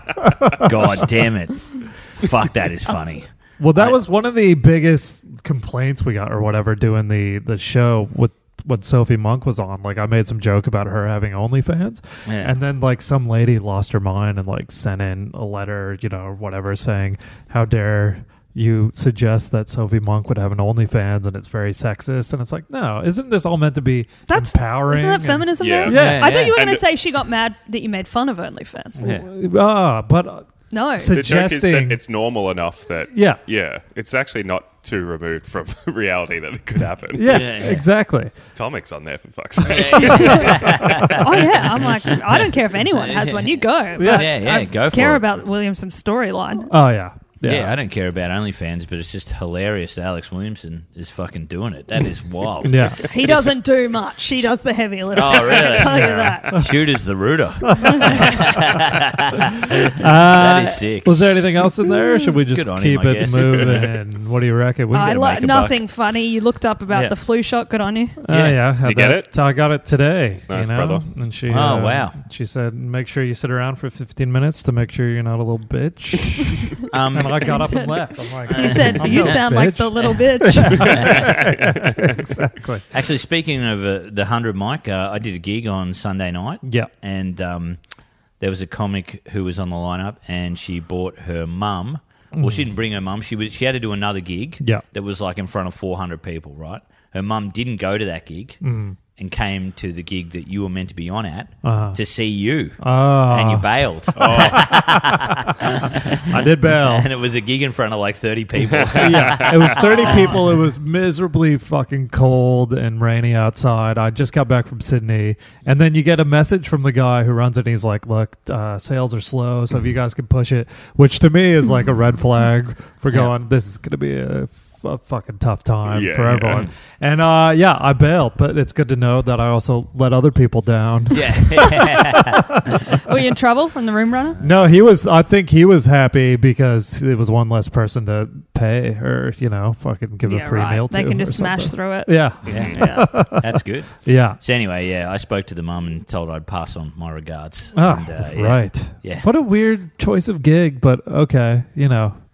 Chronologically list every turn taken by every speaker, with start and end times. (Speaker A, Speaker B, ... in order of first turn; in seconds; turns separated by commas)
Speaker A: 0.2-0.7, Speaker B: 0.6-4.0, Speaker A: 3.6-26.4, Speaker B: 12.2-12.5, Speaker C: 24.3-29.1, Speaker D: 25.6-26.8, Speaker B: 25.9-26.6, Speaker A: 29.0-32.0, Speaker B: 29.0-29.3, Speaker C: 30.7-31.1, Speaker D: 31.1-37.5, Speaker A: 33.1-33.4, Speaker A: 37.1-38.3, Speaker B: 37.3-37.8, Speaker D: 38.5-40.8, Speaker B: 39.6-41.3, Speaker C: 41.1-46.7, Speaker B: 42.3-45.2, Speaker A: 44.0-44.5, Speaker A: 46.7-47.8, Speaker B: 47.4-53.5, Speaker A: 52.6-53.0, Speaker C: 53.0-56.6, Speaker B: 55.1-61.3, Speaker A: 55.8-56.6, Speaker A: 57.8-58.6, Speaker C: 57.8-58.3, Speaker A: 59.9-65.2, Speaker B: 62.5-63.9, Speaker D: 63.3-63.9, Speaker C: 64.9-68.2, Speaker B: 65.0-65.8, Speaker A: 68.2-82.8, Speaker B: 68.3-68.6, Speaker D: 68.5-69.3, Speaker D: 70.5-71.0, Speaker B: 71.5-72.2, Speaker B: 76.9-77.8, Speaker C: 77.4-81.2, Speaker B: 78.5-79.5, Speaker B: 80.8-81.5, Speaker D: 81.2-82.1, Speaker B: 82.9-87.8, Speaker A: 86.6-86.9, Speaker B: 88.4-98.6, Speaker A: 92.3-92.7, Speaker A: 98.6-99.0, Speaker B: 99.2-110.5, Speaker A: 101.6-102.0, Speaker A: 102.8-107.1, Speaker D: 104.2-104.8, Speaker D: 108.6-109.9, Speaker A: 108.9-132.9, Speaker C: 109.7-110.4, Speaker D: 125.9-126.7, Speaker B: 131.1-132.5, Speaker C: 132.9-134.4, Speaker A: 134.4-144.4, Speaker C: 140.2-143.1, Speaker D: 142.4-142.8, Speaker B: 142.5-149.3, Speaker A: 147.7-152.2